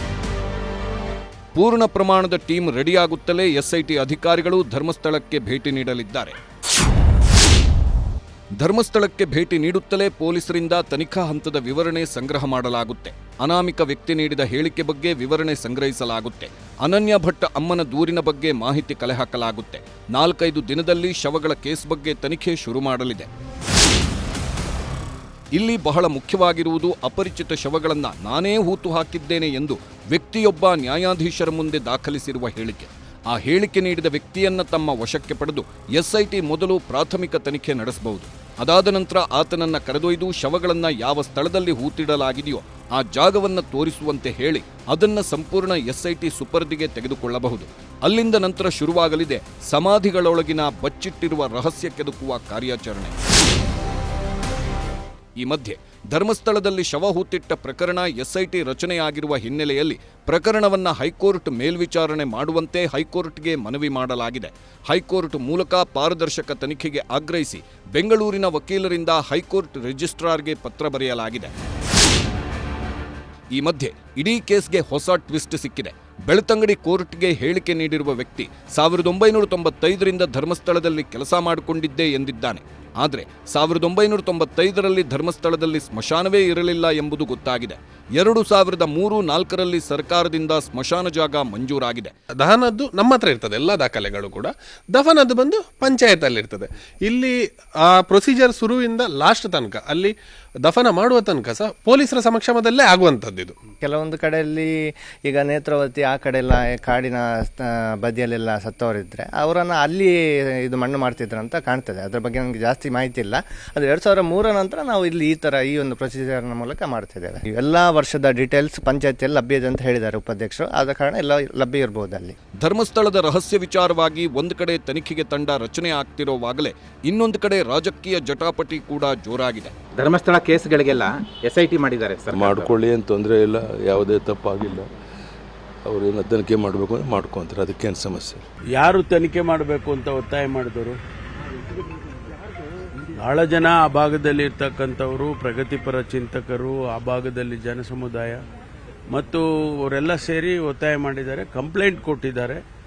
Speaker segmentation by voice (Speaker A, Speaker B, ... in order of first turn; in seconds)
Speaker A: 1.5-6.4, 8.6-23.3, 25.6-53.1, 55.4-71.5, 73.5-92.1, 122.6-129.7
Speaker B: 92.4-103.5
Speaker C: 103.8-122.3
Speaker D: 129.9-132.8
Speaker E: 135.9-138.3
Speaker F: 138.7-141.0, 143.2-148.4, 149.1-152.6